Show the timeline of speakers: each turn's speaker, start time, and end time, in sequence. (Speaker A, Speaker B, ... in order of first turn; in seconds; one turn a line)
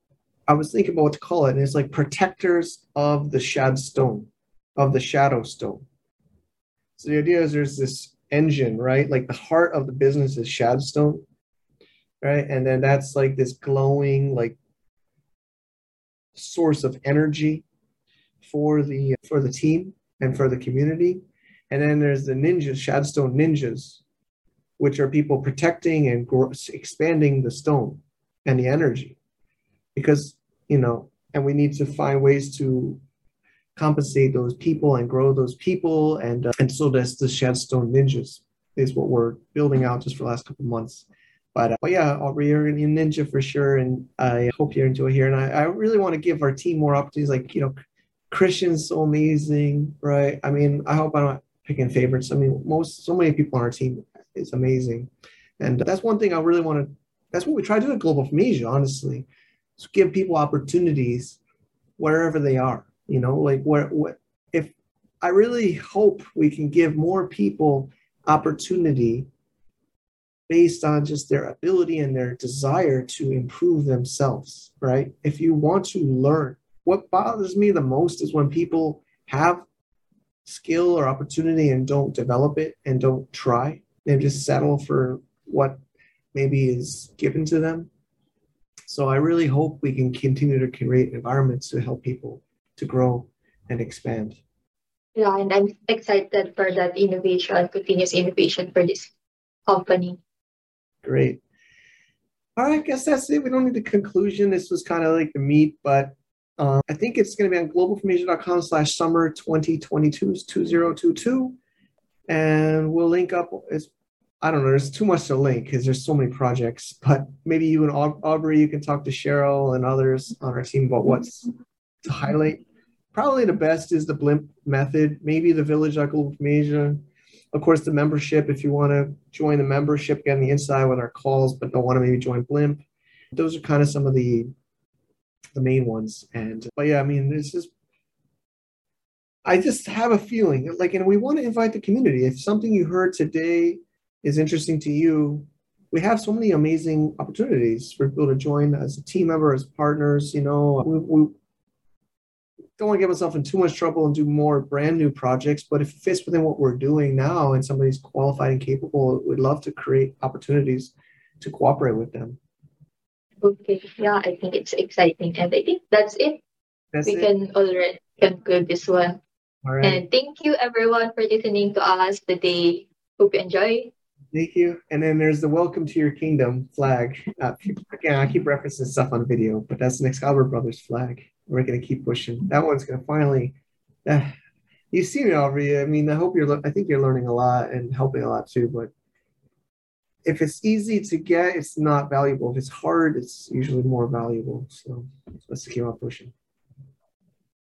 Speaker A: 0.5-5.8
Speaker A: 7.0-11.2
Speaker A: 12.2-14.6
Speaker A: 16.3-17.6
Speaker A: 18.4-24.0
Speaker A: 24.8-29.2
Speaker A: 29.9-33.0
Speaker A: 33.8-47.7
Speaker A: 48.3-61.4
Speaker A: 62.0-69.3
Speaker A: 70.5-79.6
Speaker A: 80.5-85.8
Speaker A: 86.3-87.9
Speaker A: 88.9-94.4
Speaker B: 95.2-99.1
Speaker B: 99.7-100.2
Speaker A: 101.0-101.4
Speaker A: 102.5-111.5
Speaker A: 112.3-121.5
Speaker A: 122.0-134.5
Speaker A: 135.5-137.7
Speaker A: 139.4-151.3
Speaker A: 152.8-162.4
Speaker B: 163.4-166.4
Speaker A: 166.9-167.3
Speaker B: 167.0-169.2
Speaker A: 169.6-170.0
Speaker B: 169.8-173.9
Speaker A: 174.3-184.3
Speaker A: 184.9-188.9
Speaker A: 190.2-196.3